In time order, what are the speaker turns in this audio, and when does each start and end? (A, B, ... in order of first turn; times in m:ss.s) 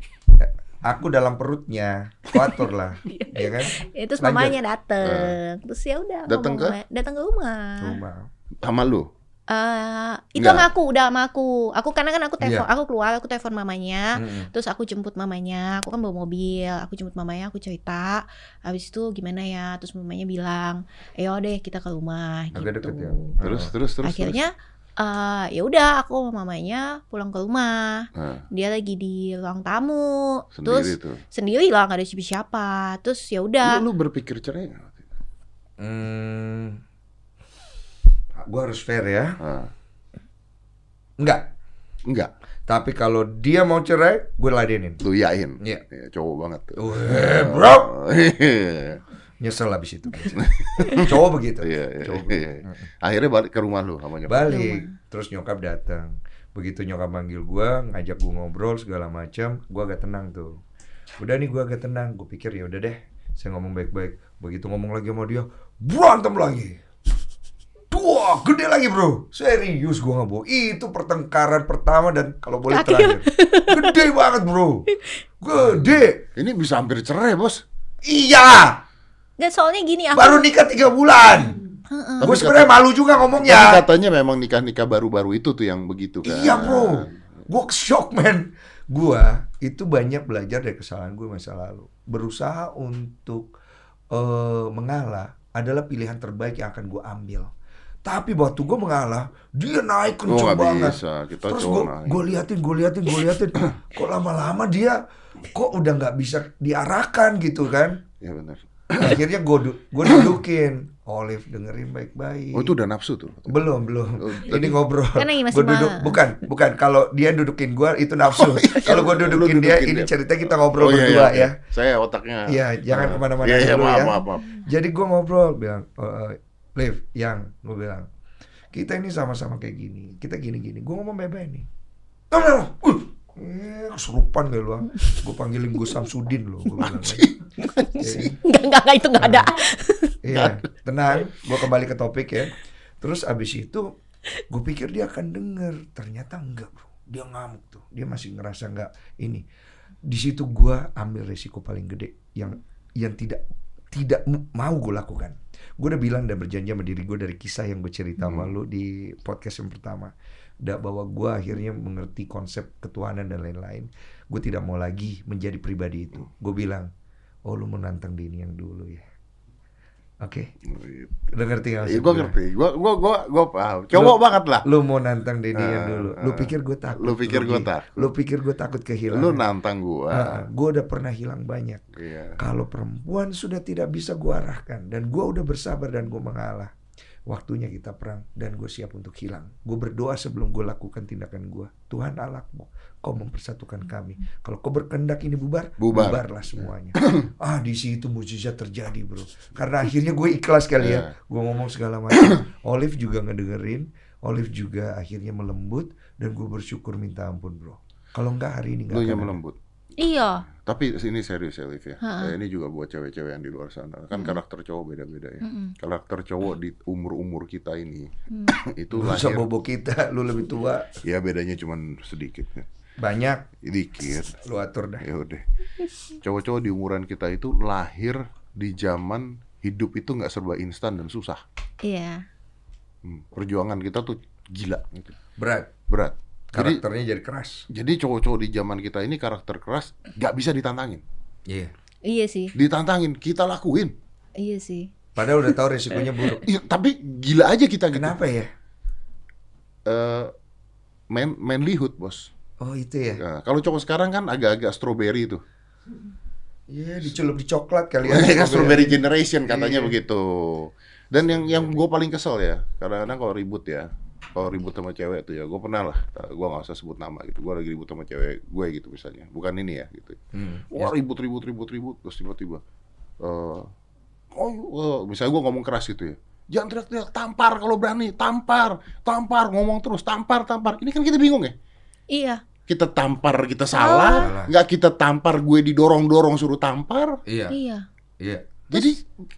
0:00.3-0:04.6 A
0:03.1-0:08.0 B
0:05.0-0:05.4 C
0:06.3-0:06.8 C
0:07.8-0:08.3 A
0:08.6-0:09.1 C
0:09.5-0:22.9 B
0:10.4-0:10.7 C
0:14.2-0:14.5 A
0:22.5-0:23.7 A
0:22.8-0:24.4 C
0:24.0-0:33.8 B
0:28.2-0:28.4 C
0:30.6-0:31.2 C
0:33.6-0:35.0 C
0:35.8-0:36.8 A
0:38.4-0:39.4 A
0:39.4-0:39.7 C
0:41.2-0:41.5 A
0:42.7-0:45.0 A
0:45.0-0:49.0 C
0:46.8-0:47.9 A
0:49.4-0:52.9 A
0:50.4-0:51.1 C
0:51.6-0:54.6 C
0:54.3-1:00.6 A
0:54.5-0:54.9 B
1:01.2-1:06.8 A
1:07.9-1:14.9 A
1:12.7-1:14.0 B
1:15.4-1:16.2 A
1:15.6-1:17.6 C
1:18.1-1:18.8 A
1:19.4-1:20.5 B
1:20.2-1:21.6 A
1:21.9-1:22.3 B
1:22.2-1:22.8 C
1:22.2-1:23.8 A
1:23.4-1:27.1 C
1:26.2-1:33.5 A
1:34.1-1:37.5 A
1:38.1-1:48.0 A
1:40.3-1:42.4 C
1:48.2-1:49.2 C
1:49.0-1:52.7 A
1:52.5-1:53.6 C
1:53.5-2:01.6 A
1:54.2-1:54.8 C
1:55.2-1:56.2 B
1:58.3-2:04.5 C
2:02.5-2:08.1 A
2:08.7-2:11.7 A
2:12.3-2:17.3 A
2:16.8-2:18.3 C
2:17.8-2:20.2 B
2:18.0-2:18.4 A
2:19.2-2:19.5 A
2:20.2-2:23.8 A
2:20.3-2:20.6 C
2:24.5-2:29.4 A
2:30.1-2:33.4 A
2:33.9-2:46.9 A
2:38.2-2:38.5 C
2:47.5-2:49.0 A
2:50.2-2:50.5 A
2:50.6-2:51.3 C
2:51.3-2:52.4 A
2:51.8-2:54.7 C
2:53.9-2:59.4 A
2:55.6-2:58.1 C
2:59.1-3:00.4 C
3:00.1-3:01.8 A
3:02.0-3:02.4 C
3:02.4-3:06.7 A
3:07.3-3:29.4 A
3:15.8-3:17.3 C
3:20.8-3:21.1 C
3:28.9-3:29.6 C
3:30.0-3:30.4 B
3:30.5-3:39.5 C
3:32.0-3:32.3 B
3:34.1-3:34.4 B
3:35.4-3:35.8 B
3:38.9-3:40.9 A
3:41.0-3:42.7 C
3:43.0-3:43.5 A
3:43.6-3:44.4 C
3:44.1-3:45.1 A
3:45.0-3:45.4 C
3:46.1-3:51.4 C
3:51.8-3:52.2 B
3:53.0-3:55.1 C
3:55.4-3:55.7 A
3:55.9-3:56.8 C
3:56.5-3:57.7 A
3:57.7-4:01.0 C
4:01.5-4:01.7 A
4:02.0-4:02.5 B
4:02.6-4:04.0 C
4:04.4-4:04.9 B
4:05.2-4:06.4 A
4:06.4-4:08.2 C
4:07.9-4:08.5 A
4:09.9-4:10.3 C
4:11.1-4:12.3 C
4:12.6-4:13.2 A
4:13.2-4:15.4 C
4:16.7-4:20.0 A
4:18.0-4:30.2 C
4:21.2-4:21.8 A
4:30.3-4:30.9 A
4:30.7-4:32.6 C
4:33.2-4:33.7 C
4:34.3-4:41.5 C
4:42.1-4:42.4 B
4:42.7-4:47.2 C
4:43.7-4:44.3 B
4:44.2-4:44.5 A
4:47.3-4:47.6 A
4:47.5-4:47.9 B
4:48.2-4:48.9 A
4:48.7-4:49.1 C